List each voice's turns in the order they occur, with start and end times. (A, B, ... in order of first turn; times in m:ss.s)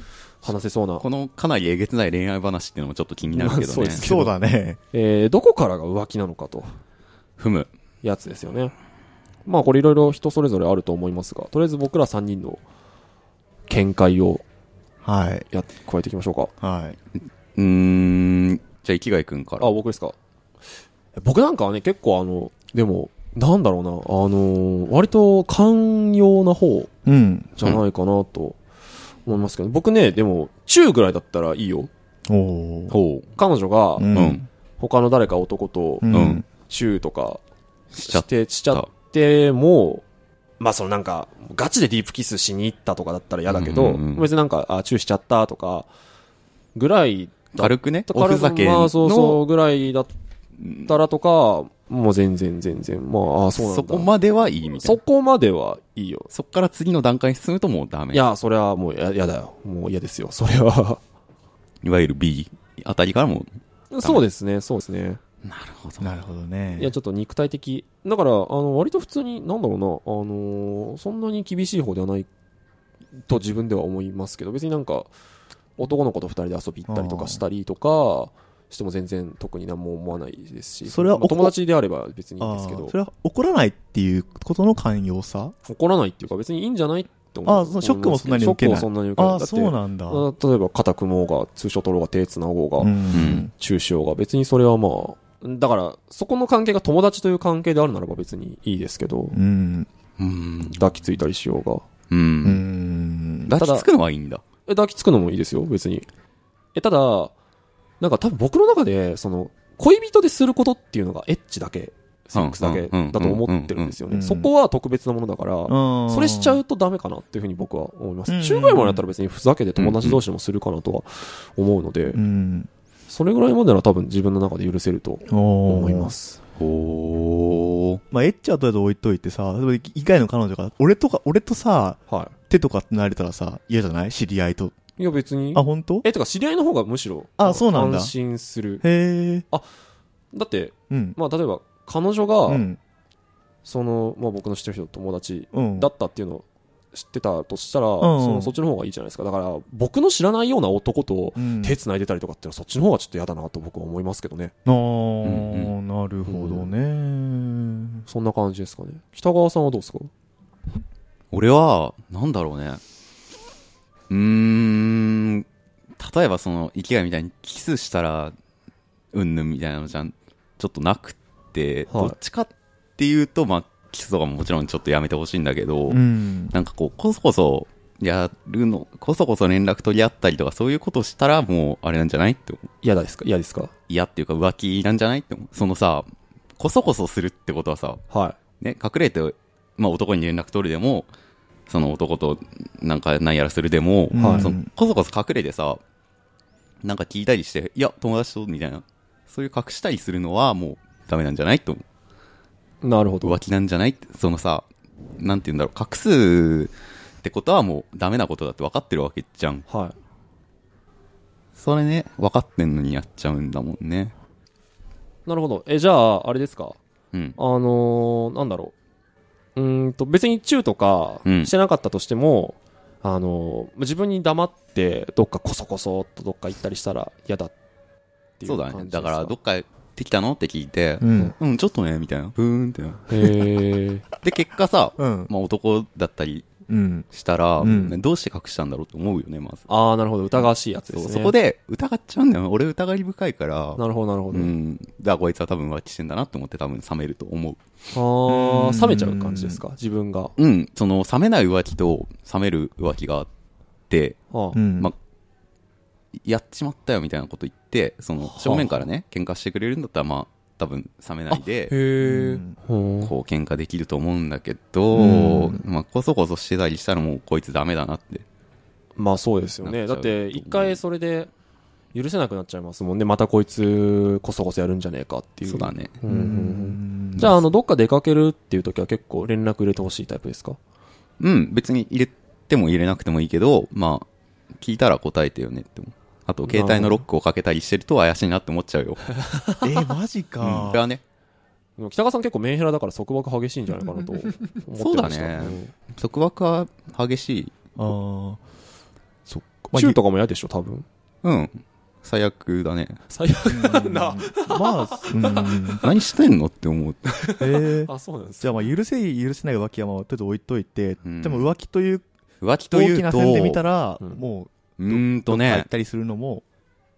0:00.4-0:01.0 A
0:01.0-0:04.0 B
0:03.3-0:04.3 A
0:04.0-0:04.8 C
0:04.9-0:06.8 A
0:07.4-0:07.7 B
0:08.0-0:08.7 A
0:09.4-0:12.6 A
0:13.7-0:14.4 A
0:15.0-0:15.4 C
0:15.5-0:16.5 A
0:16.6-0:17.0 C
0:17.5-0:19.7 B
0:19.6-0:20.2 A
0:21.2-0:26.9 A
0:27.0-0:27.5 C
0:27.6-0:28.6 A
0:29.2-0:31.9 A
0:32.3-0:33.0 C
0:32.9-0:33.2 B
0:33.3-0:34.1 A
0:34.0-0:34.4 C
0:34.1-0:34.4 B
0:34.8-0:37.4 A
0:36.0-0:36.4 C
0:36.1-0:36.4 B
0:37.9-0:38.9 B
0:38.0-0:40.0 A
0:40.6-0:45.9 A
0:43.5-0:44.3 B
0:46.7-0:50.1 A
0:47.6-0:49.4 B
0:50.6-0:51.0 B
0:50.8-0:54.1 A
0:53.5-0:55.0 B
0:54.7-0:56.3 A
0:56.3-0:58.2 B
0:58.1-1:01.0 A
1:01.8-1:04.2 B
1:03.9-1:05.2 A
1:05.4-1:06.0 B
1:06.0-1:06.9 C
1:06.8-1:12.3 A
1:13.3-1:15.1 A
1:15.8-1:22.9 A
1:16.9-1:17.4 C
1:20.8-1:21.5 C
1:22.4-1:25.5 C
1:25.6-1:39.4 A
1:27.4-1:30.3 C
1:32.8-1:33.5 C
1:33.1-1:33.5 B
1:39.3-1:39.9 C
1:40.2-1:40.8 B
1:40.6-1:41.8 A
1:42.1-1:42.6 B
1:42.4-1:43.5 C
1:43.5-1:44.4 B
1:43.6-1:43.9 A
1:44.6-1:46.0 A
1:46.7-1:47.3 A
1:48.0-2:02.2 A
1:52.3-1:54.0 B
1:54.1-1:54.5 C
1:55.7-1:56.6 C
1:58.3-1:59.0 C
1:59.8-2:00.2 B
2:02.1-2:02.7 C
2:03.1-2:06.4 A
2:05.3-2:06.1 C
2:06.6-2:08.0 B
2:08.1-2:14.7 C
2:12.1-2:12.3 A
2:15.0-2:18.8 A
2:15.5-2:16.0 C
2:17.4-2:18.1 C
2:18.8-2:19.4 C
2:20.3-2:22.6 A
2:20.9-2:21.2 C
2:22.5-2:22.8 C
2:23.6-2:34.5 A
2:25.5-2:25.9 C
2:28.0-2:28.5 C
2:31.4-2:31.8 C
2:34.6-2:38.0 C
2:35.2-2:35.7 B
2:36.2-2:36.7 A
2:38.1-2:40.1 A
2:41.3-2:42.8 B
2:44.1-2:45.4 B
2:46.0-2:48.3 B
2:49.1-3:02.7 B
2:51.9-2:52.2 A
2:55.9-2:56.5 C
3:02.8-3:03.7 A
3:03.9-3:08.0 B
3:08.1-3:08.4 A
3:08.6-3:11.1 B
3:11.7-3:15.8 B
3:14.1-3:14.7 C
3:14.2-3:14.5 A
3:16.8-3:21.8 B
3:22.8-3:23.4 A
3:23.2-3:24.6 B
3:25.2-3:29.6 B
3:29.7-3:30.0 A
3:31.6-3:34.1 B
3:35.2-3:36.8 A
3:37.1-3:37.4 B
3:37.4-3:38.7 A
3:39.6-3:47.5 A
3:41.2-3:41.5 B
3:48.4-3:49.3 A
3:48.4-3:53.3 B
3:51.0-3:51.3 C
3:53.1-3:54.0 A
3:54.2-3:56.5 B
3:55.0-3:55.3 C
3:56.7-3:57.0 C
3:57.1-3:59.6 B
3:57.6-3:58.0 C
3:59.7-4:01.3 A
4:00.9-4:07.6 B
4:03.8-4:04.5 A
4:07.9-4:10.3 A
4:08.3-4:09.6 C
4:10.4-4:13.3 B
4:13.9-4:14.2 B
4:14.3-4:14.6 A
4:14.5-4:14.9 C
4:16.2-4:21.7 B
4:18.2-4:18.8 A
4:21.3-4:23.1 A
4:22.0-4:22.5 C
4:23.0-4:28.2 B
4:24.9-4:25.6 C
4:29.0-4:31.3 A
4:29.6-4:30.8 B
4:31.9-4:40.6 A
4:35.4-4:35.9 B
4:36.0-4:37.3 C
4:41.2-4:44.1 B
4:44.6-4:49.1 B
4:46.5-4:47.0 A
4:49.2-4:49.6 A
4:49.6-4:50.8 C
4:50.4-4:51.0 B
4:51.8-4:55.7 A
4:54.8-4:57.5 B
4:57.8-4:58.4 C
4:59.3-5:00.0 C
4:59.7-5:00.8 A
5:01.2-5:03.0 B
5:03.1-5:05.9 A
5:03.5-5:05.8 C
5:05.8-5:07.2 B
5:07.2-5:08.7 A
5:07.4-5:07.9 C
5:08.4-5:12.0 C
5:11.0-5:11.5 B
5:12.4-5:13.6 B
5:12.7-5:16.4 C
5:14.8-5:15.7 B